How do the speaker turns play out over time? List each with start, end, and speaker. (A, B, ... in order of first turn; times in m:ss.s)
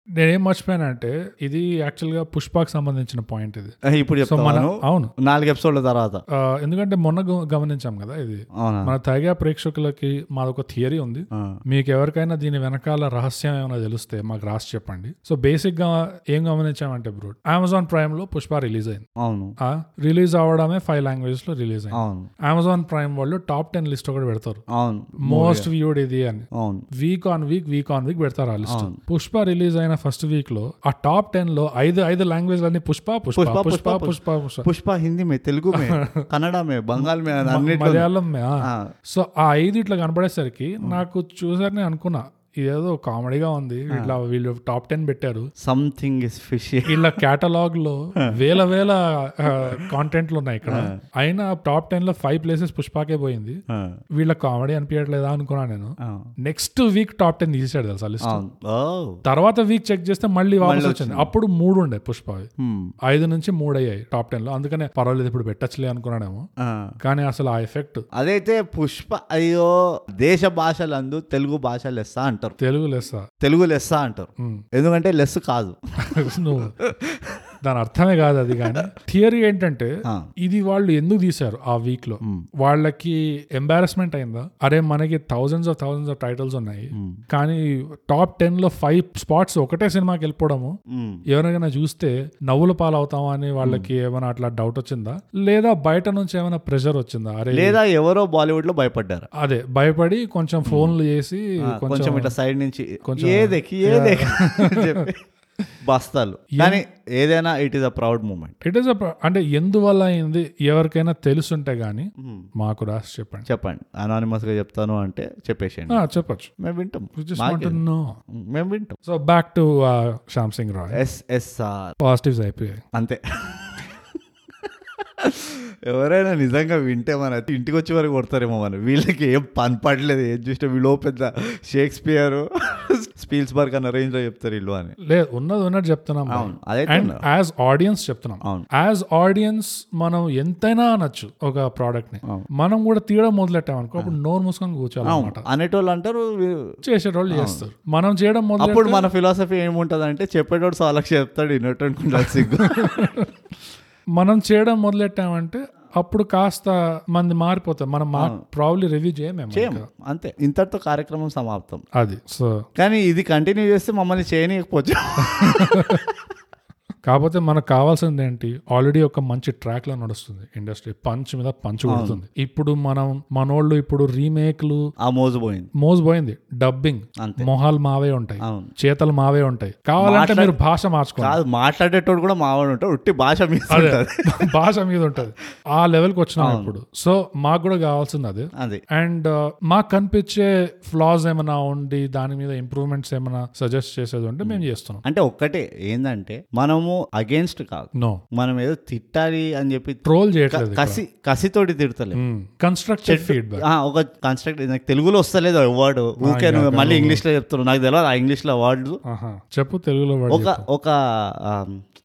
0:00.2-0:03.7 A
0:03.8-0:06.2 B
0:04.2-0:05.1 A
0:06.4-0:19.0 A
0:08.6-0:08.9 B
0:11.3-0:11.6 B
0:19.2-0:19.6 B
0:19.6-0:24.6 A
0:21.9-0:22.3 B
0:24.7-0:25.7 B
0:25.2-0:34.7 A
0:26.5-0:26.9 B
0:28.7-0:29.0 B
0:33.4-0:38.1 B
0:35.8-0:36.2 A
0:37.0-0:45.5 A
0:38.6-0:38.9 B
0:43.9-0:44.2 B
0:45.6-0:47.2 B
0:46.9-0:53.6 A
0:49.5-0:49.9 B
0:50.7-0:51.0 B
0:53.7-0:53.9 B
0:54.2-0:55.9 A
0:56.4-0:58.4 A
0:58.2-0:59.2 B
0:59.2-1:02.5 A
1:00.6-1:01.3 B
1:02.6-1:02.9 B
1:03.0-1:06.4 A
1:06.6-1:06.9 B
1:07.0-1:08.0 A
1:08.1-1:12.6 B
1:12.6-1:13.3 A
1:13.4-1:15.8 B
1:16.0-1:16.7 A
1:16.3-1:17.5 B
1:17.6-1:19.9 A
1:18.6-1:18.8 B
1:20.4-1:30.7 A
1:26.9-1:27.2 B
1:30.9-1:31.2 B
1:31.3-1:37.8 A
1:33.6-1:33.9 B
1:37.5-1:39.3 B
1:39.4-1:42.3 A
1:40.6-1:41.0 B
1:41.6-1:45.2 B
1:43.0-1:45.1 A
1:45.8-1:48.6 B
1:46.5-1:46.8 A
1:48.6-1:53.5 A
1:52.2-1:52.5 B
1:53.5-1:56.0 B
1:55.9-1:56.5 A
1:56.6-1:57.8 B
1:57.2-1:58.1 A
1:58.3-1:59.0 B
1:59.0-2:01.0 A
2:00.9-2:01.9 B
2:02.0-2:02.8 A
2:02.9-2:03.9 B
2:04.6-2:14.9 B
2:15.1-2:25.4 A
2:16.3-2:17.2 B
2:25.0-2:26.7 B
2:26.8-2:29.1 A
2:27.3-2:27.6 B
2:28.6-2:33.1 B
2:32.2-2:33.3 A
2:34.2-2:39.8 A
2:39.5-2:41.8 B
2:42.0-2:42.6 A
2:42.8-2:46.0 B
2:45.3-2:46.0 A
2:47.1-2:54.8 A
2:51.9-2:52.2 B
2:55.0-2:55.7 B
2:55.8-3:01.4 A
2:57.2-2:57.5 B
2:58.4-2:58.7 B
3:00.0-3:00.5 B
3:01.2-3:04.5 B
3:03.7-3:15.0 A
3:06.4-3:06.8 B
3:08.6-3:08.8 B
3:14.4-3:22.2 B
3:18.0-3:18.2 A
3:20.0-3:21.0 A
3:22.1-3:23.6 A
3:23.0-3:29.0 B
3:26.2-3:27.2 A
3:29.0-3:30.6 A
3:30.3-3:31.8 B